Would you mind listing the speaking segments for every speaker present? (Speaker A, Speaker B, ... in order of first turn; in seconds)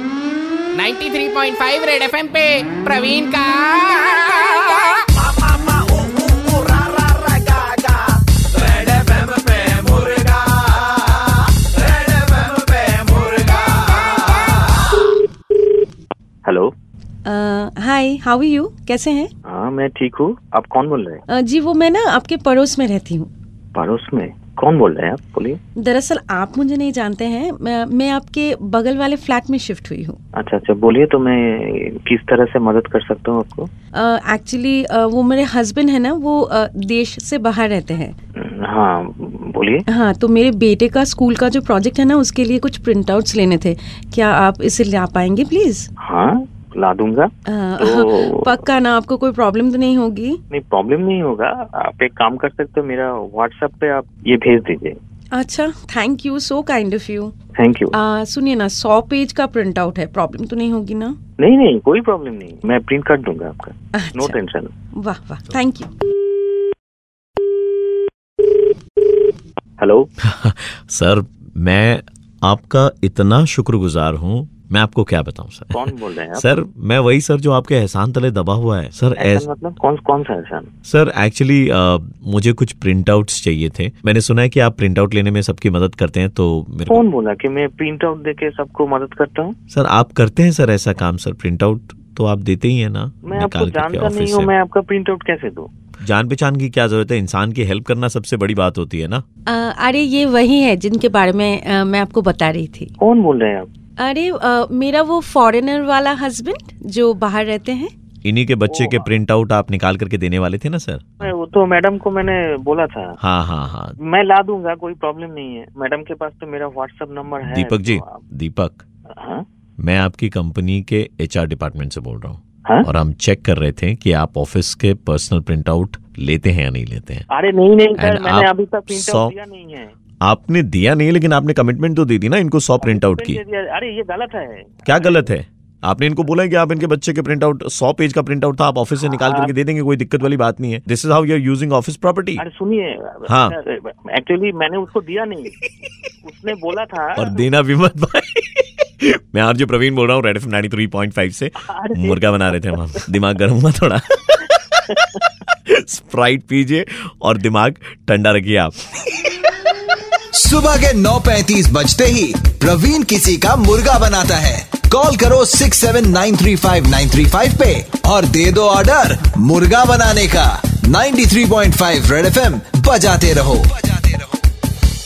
Speaker A: 0.7-5.1
Speaker B: 16.4-16.7, 19.5-21.2, 23.7-25.6, 30.4-33.7, 38.4-39.8, 46.0-48.5, 50.5-55.0, 57.5-58.0, 61.4-64.7, 69.8-70.1, 75.7-76.4, 79.2-80.7, 86.9-89.5, 93.3-95.7, 103.0-103.7, 108.7-109.0, 111.2-113.2, 114.0-118.2, 119.2-119.4, 127.3-129.9, 132.8-135.3, 139.2-139.5, 142.4-145.5, 146.2-147.3, 151.7-152.4
Speaker C: 17.2-19.3, 21.3-23.3, 25.8-30.2, 33.9-38.1, 39.9-45.9, 47.5-50.4, 55.3-57.3, 57.9-61.1, 63.9-64.3, 65.0-65.9, 99.5-102.9, 104.0-107.9
Speaker D: 70.2-75.8, 76.3-79.5, 80.9-87.0, 89.7-94.5, 96.0-99.2, 108.2-111.3, 113.2-114.0, 117.4-118.8, 119.8-127.3, 128.0-129.3, 130.2-133.4, 134.9-142.4, 143.3-143.5, 147.2-158.8
Speaker E: 160.3-174.2